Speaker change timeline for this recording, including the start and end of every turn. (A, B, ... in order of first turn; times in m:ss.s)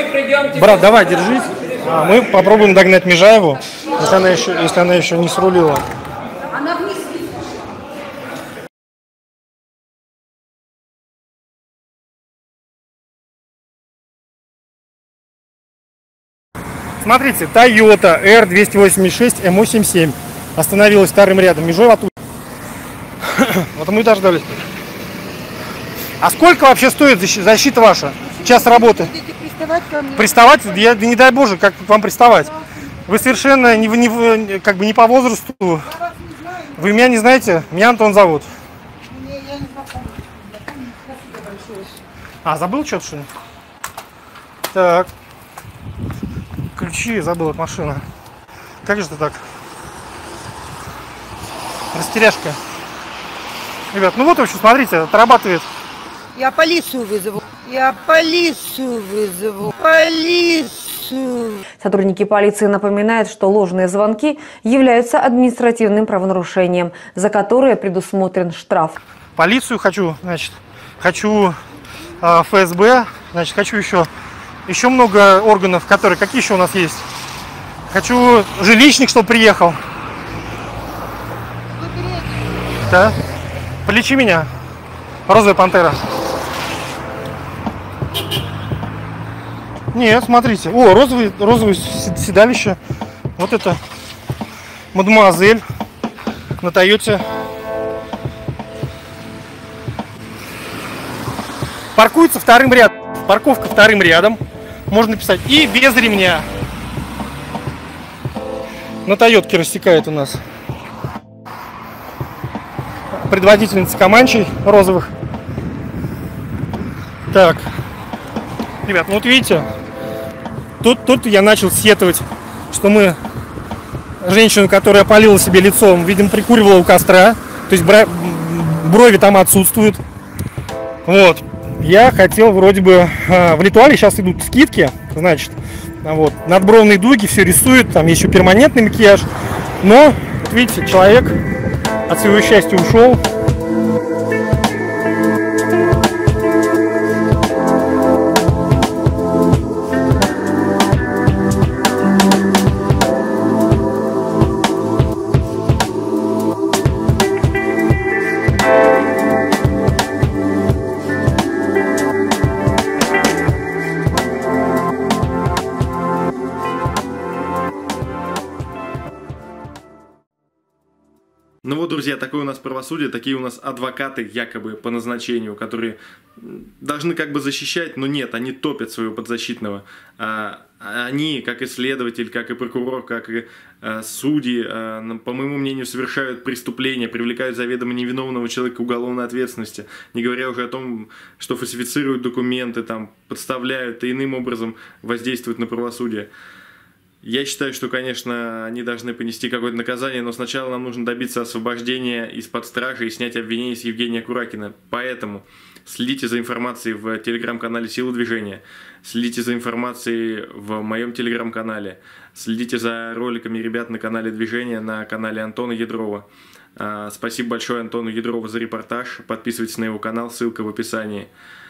0:00.4-0:05.9 A
0:17.0-0:22.1 A
0:23.2-0:24.6 A
0:26.2-0:29.1 A
0:28.2-0:30.8 B
0:30.2-0:32.5 A
0:33.0-0:35.9 A
0:36.1-0:36.8 B
0:36.8-0:38.5 A
0:39.1-0:42.0 B
0:42.4-0:43.3 A
0:44.7-0:45.1 A
0:46.8-0:48.0 A
0:48.8-0:49.4 A
0:51.9-0:52.6 A
0:53.9-0:55.6 A
0:56.4-1:01.6 B
1:01.8-1:09.0 C
1:09.4-1:11.6 A
1:12.2-1:14.1 A
1:14.7-1:17.0 A
1:17.9-1:19.8 A
1:21.7-1:22.5 B
1:22.8-1:23.2 A
1:23.8-1:24.5 A
1:25.3-1:26.0 A
1:29.9-1:32.8 A
1:33.4-1:33.8 A
1:34.9-1:35.6 A
1:36.6-1:37.2 A
1:41.9-1:46.5 A
1:49.0-1:50.4 A
1:53.3-1:55.1 A
1:57.3-1:57.7 A
1:58.8-1:59.6 A
2:00.8-2:03.2 A
2:04.2-2:10.0 A
2:11.0-2:19.3 A
2:19.8-2:21.4 A
2:22.1-2:23.2 A
2:51.6-3:16.3 D
3:17.2-3:36.2 D
3:36.8-3:41.3 D